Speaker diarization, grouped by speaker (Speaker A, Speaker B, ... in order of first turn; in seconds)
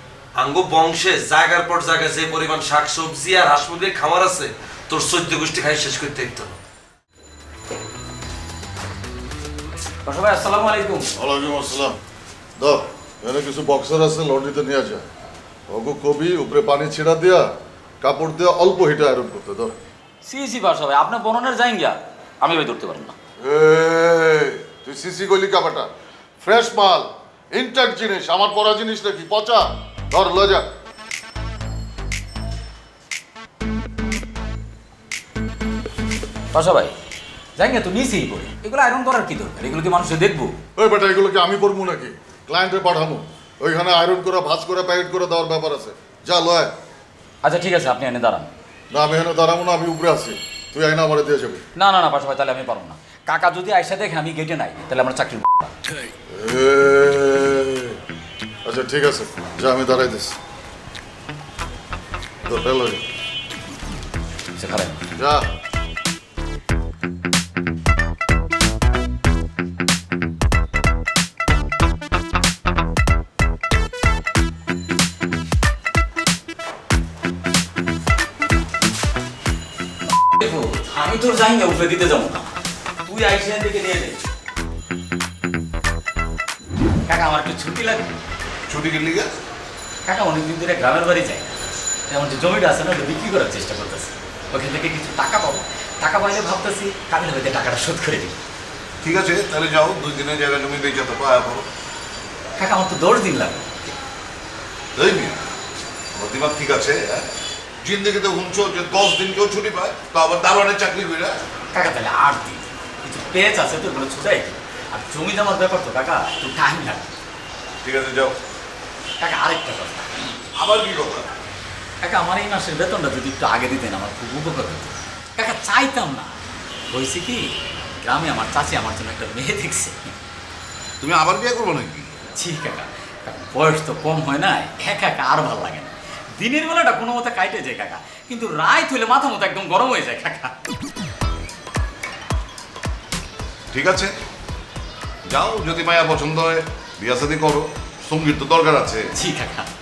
Speaker A: 0.4-6.6
Speaker B: 10.1-11.1, 20.2-23.1, 36.5-36.9, 37.6-40.5, 47.4-48.5, 51.8-55.7, 64.5-65.0, 80.2-82.5, 83.0-84.3, 87.1-88.1, 90.0-91.5, 92.1-98.4, 102.6-103.7, 111.7-117.1, 119.2-120.1, 122.0-126.3, 126.9-127.4, 128.0-130.1, 132.3-140.5, 149.1-149.7
Speaker C: 11.2-12.0, 12.6-15.0, 15.7-17.5, 18.0-19.7, 23.4-25.9, 26.4-30.7, 40.8-46.7, 48.9-51.6, 56.3-58.0, 58.6-60.4, 62.4-63.0, 65.2-65.5
Speaker D: 88.7-89.3, 99.0-101.7, 105.0-105.3, 106.1-107.3, 107.8-111.4, 117.8-118.3, 120.5-121.3, 131.0-132.2, 143.7-144.1, 145.2-149.1